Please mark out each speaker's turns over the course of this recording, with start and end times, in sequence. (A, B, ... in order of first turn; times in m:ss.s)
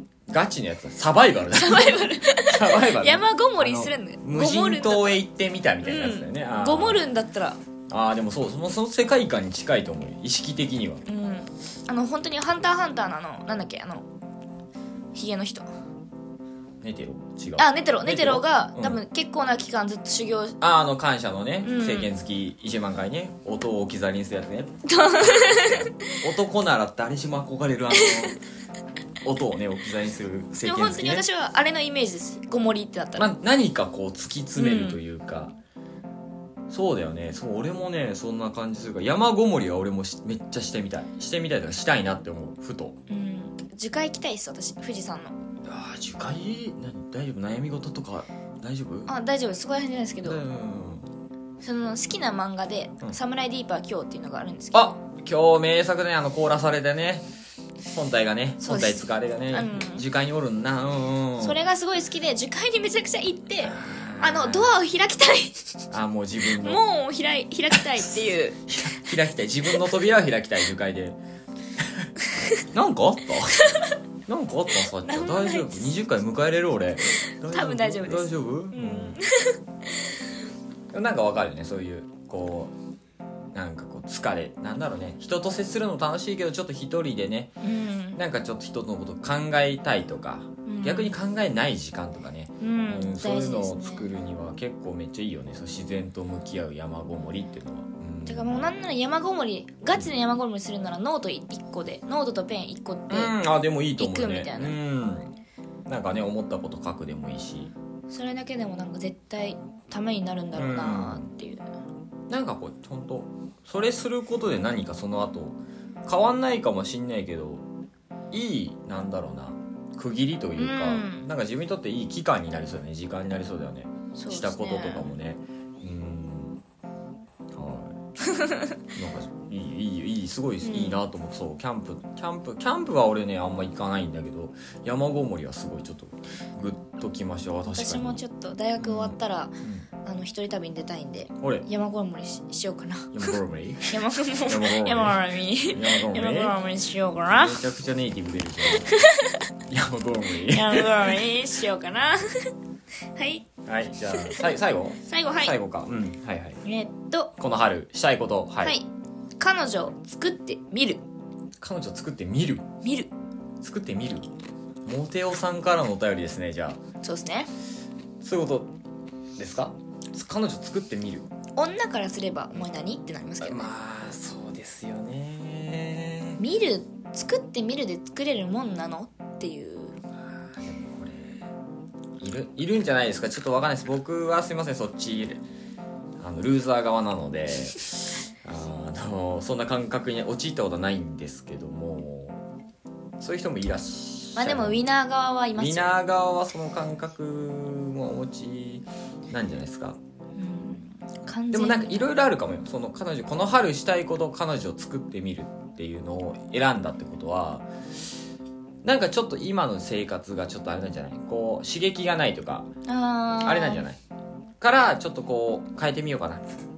0:00.3-0:07.0 A
0:01.5-0:05.2 B
0:05.8-0:07.6 B
0:07.9-0:11.0 A
0:11.1-0:14.1 B
0:15.1-0:15.7 B
0:16.8-0:19.0 A
0:17.6-0:20.6 B
0:20.6-0:28.4 A
0:21.6-0:22.1 B
0:24.9-0:26.2 B
0:27.9-0:28.3 B
0:29.2-0:31.2 A
0:30.6-0:33.3 B
0:33.2-0:35.5 A
0:34.6-0:35.0 B
0:36.7-0:43.0 A
0:43.1-0:45.4 B
0:45.6-0:49.1 A
0:49.1-0:50.4 B
0:50.2-0:51.1 A
0:51.6-0:54.9 B
0:54.7-0:57.3 A
0:57.9-1:01.6 A
0:58.6-1:00.0 B
1:01.4-1:05.7 B
1:03.6-1:04.7 A
1:05.9-1:06.8 A
1:06.5-1:08.6 B
1:08.6-1:11.2 A
1:11.8-1:12.1 A
1:12.7-1:13.6 A
1:14.3-1:19.2 A
1:15.0-1:16.0 B
1:17.2-1:20.1 B
1:20.9-1:22.7 A
1:23.5-1:27.5 A
1:27.6-1:28.2 B
1:28.2-1:38.7 A
1:30.6-1:31.1 B
1:32.6-1:34.1 B
1:38.2-1:43.4 B
1:43.1-1:45.3 A
1:44.0-1:44.8 B
1:45.9-1:47.7 A
1:48.1-1:51.6 B
1:50.5-1:51.2 A
1:52.3-1:57.6 A
1:58.3-2:06.6 A
2:00.6-2:01.3 B
2:04.1-2:05.1 B
2:07.5-2:08.0 A
2:08.3-2:08.7 B
2:08.9-2:18.2 A
2:10.6-2:11.0 B
2:17.7-2:23.4 B
2:18.8-2:19.9 A
2:21.4-2:21.7 A
2:23.1-2:26.6 A
2:23.9-2:27.6 B
2:27.3-2:28.9 A
2:28.8-2:29.4 B
2:29.7-2:31.2 A
2:30.4-2:32.5 B
2:33.2-2:33.5 B
2:33.6-2:36.6 A
2:34.1-2:34.5 B
2:35.1-2:35.5 B
2:36.6-2:37.3 B
2:37.4-2:38.8 A
2:39.4-2:41.0 B
2:41.6-2:42.7 A
2:42.8-2:43.1 B
2:43.6-2:44.3 A
2:44.8-2:46.8 A
2:47.0-2:47.5 B
2:48.2-2:48.7 A
2:49.4-2:51.3 A
2:51.6-2:53.7 B
2:53.4-2:56.4 A
2:56.4-3:00.0 B
3:00.4-3:01.4 A
3:02.2-3:05.4 A
3:06.2-3:12.4 A
3:13.2-3:14.8 A
3:14.4-3:15.9 B
3:15.6-3:20.0 A
3:20.4-3:22.1 B
3:21.5-3:27.7 A
3:28.8-3:32.7 A
3:32.9-3:33.8 B
3:33.4-3:34.0 A
3:34.6-3:36.5 A